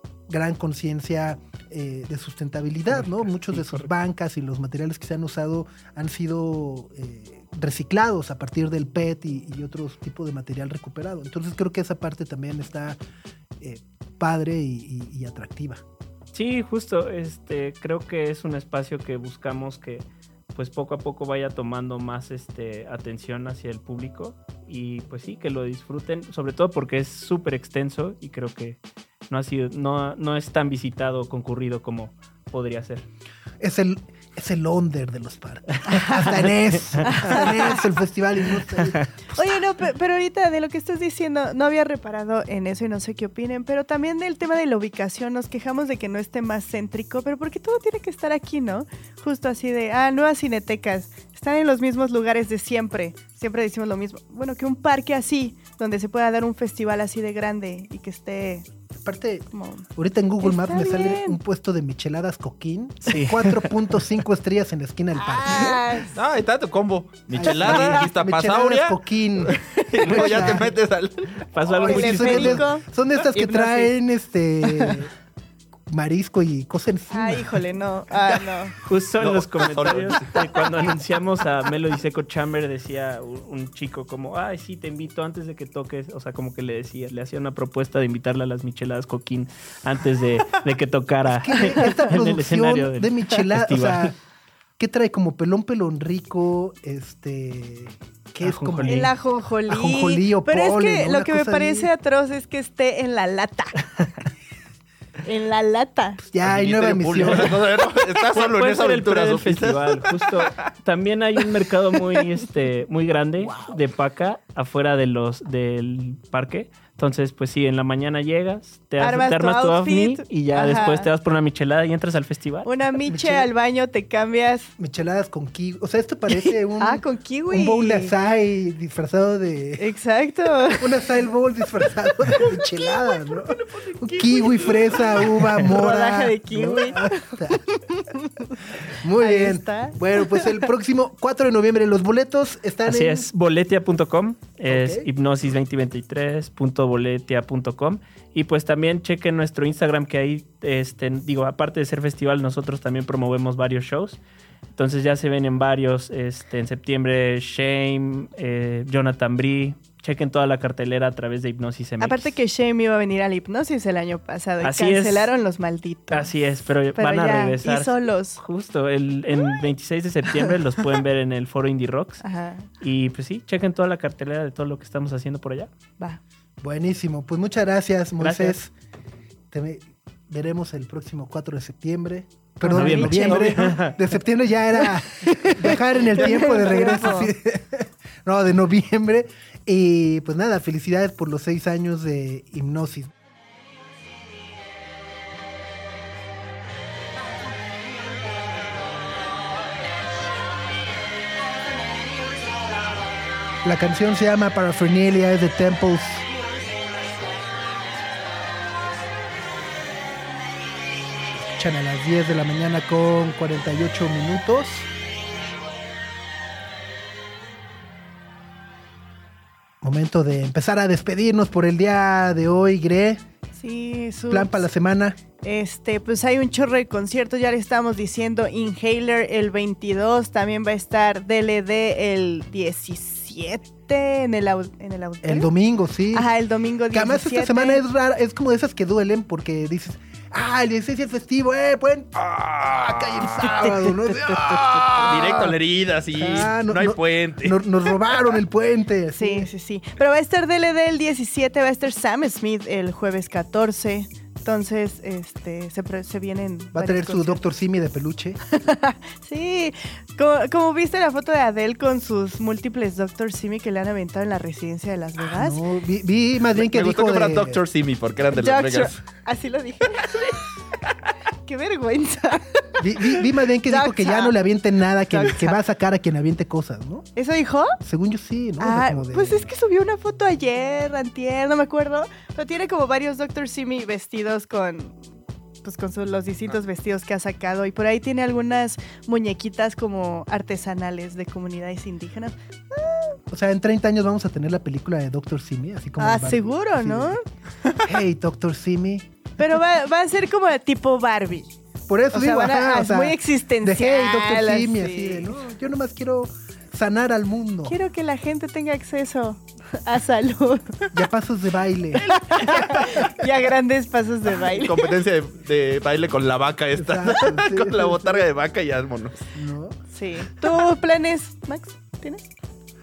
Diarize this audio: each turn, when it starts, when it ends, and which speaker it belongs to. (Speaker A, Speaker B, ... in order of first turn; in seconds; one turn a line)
Speaker A: 0.3-13.0
Speaker B: 2.9-3.9
Speaker A: 13.6-15.8
Speaker B: 16.3-33.1
Speaker A: 33.6-39.6
Speaker C: 36.0-36.3
Speaker C: 37.0-37.8
Speaker C: 39.3-58.6
Speaker A: 59.0-65.8
Speaker C: 59.5-59.9
Speaker C: 60.4-61.4
Speaker B: 63.1-63.7
Speaker C: 65.2-66.1
Speaker D: 66.1-71.4
Speaker A: 67.3-70.7
Speaker C: 67.4-68.0
Speaker B: 70.2-70.5
Speaker B: 71.5-72.6
Speaker A: 71.7-75.1
Speaker C: 71.8-73.9
Speaker A: 75.9-77.6
Speaker C: 77.1-78.7
Speaker B: 78.8-94.1
Speaker D: 79.2-80.9
Speaker A: 91.2-94.2
Speaker A: 94.8-99.1
Speaker B: 98.4-99.1
Speaker C: 98.8-104.0
Speaker A: 99.7-101.9
Speaker C: 105.2-106.2
Speaker A: 106.2-107.6
Speaker D: 106.4-110.7
Speaker B: 108.3-122.7
Speaker A: 113.4-113.8
Speaker C: 119.0-121.1
Speaker C: 122.6-124.7
Speaker A: 123.0-123.5
Speaker A: 124.8-129.9
Speaker C: 126.8-128.1
Speaker C: 129.8-130.9
Speaker A: 130.8-137.6
Speaker C: 132.2-133.2
Speaker D: 133.4-135.2
Speaker C: 135.6-138.6
Speaker A: 138.8-143.3
Speaker C: 139.2-140.7
Speaker B: 142.8-154.2
Speaker A: 144.7-145.1
Speaker B: 154.7-162.4
Speaker C: 162.0-166.3
Speaker B: 164.6-165.3
Speaker B: 166.1-172.2
Speaker C: 166.9-168.4
Speaker C: 172.2-172.7
Speaker B: 172.8-175.7
Speaker A: 176.6-178.7
Speaker B: 178.2-178.6
Speaker A: 179.5-193.1
Speaker C: 182.6-183.7
Speaker B: 182.6-184.2
Speaker C: 185.2-187.3
Speaker A: 203.6-206.3
Speaker A: 211.3-214.9
Speaker A: 219.8-223.2
Speaker C: 223.6-224.6
Speaker A: 224.3-225.2
Speaker C: 225.4-235.5
Speaker A: 235.2-236.3
Speaker C: 236.1-237.8
Speaker A: 236.9-242.1
Speaker D: 242.2-243.5
Speaker A: 242.8-245.5
Speaker C: 243.6-243.9
Speaker D: 244.3-247.6
Speaker A: 246.1-249.5
Speaker C: 249.2-257.4
Speaker A: 256.7-258.4
Speaker C: 258.5-265.6
Speaker A: 265.2-267.6
Speaker D: 266.6-269.0
Speaker C: 268.3-270.4
Speaker C: 271.4-272.9
Speaker A: 272.8-277.1
Speaker C: 273.7-274.3
Speaker C: 275.1-275.6
Speaker C: 277.1-277.8
Speaker A: 277.8-279.5
Speaker C: 278.6-285.0
Speaker C: 285.6-293.2
Speaker A: 293.3-297.2
Speaker C: 296.0-297.2
Speaker A: 297.8-299.1
Speaker C: 299.4-301.5
Speaker A: 301.9-307.8
Speaker C: 302.1-305.4
Speaker C: 307.6-310.8
Speaker A: 310.9-313.0
Speaker C: 312.0-314.8
Speaker D: 314.6-319.2
Speaker A: 316.7-318.2
Speaker A: 319.3-319.8
Speaker C: 319.9-322.3